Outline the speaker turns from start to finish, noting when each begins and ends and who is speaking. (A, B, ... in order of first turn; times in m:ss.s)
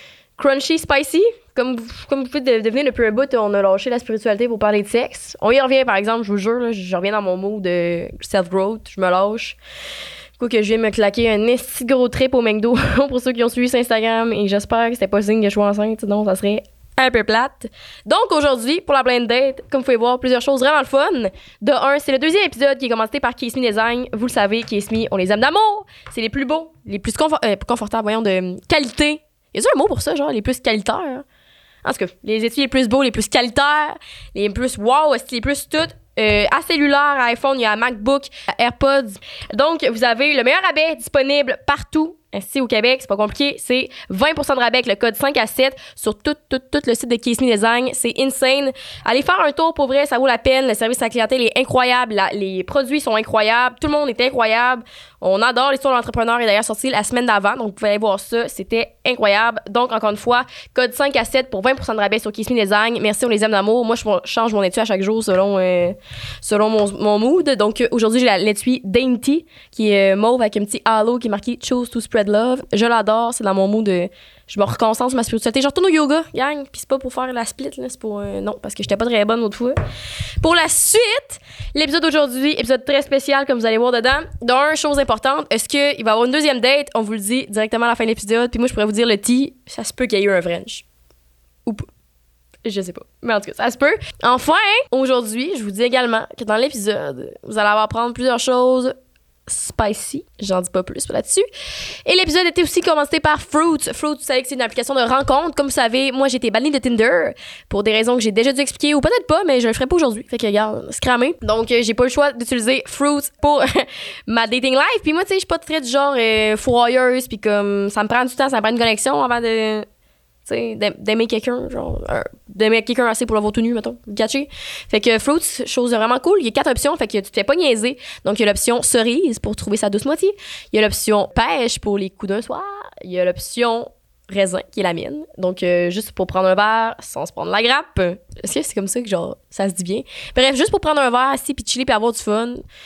0:00.4-0:09.6 A
0:10.4-0:31.2 A
0:31.8-1:19.8 A
1:20.4-1:30.8 A
1:32.6-1:38.9 A
1:39.5-1:41.4 A
1:42.0-1:59.9 A
2:00.4-2:22.6 A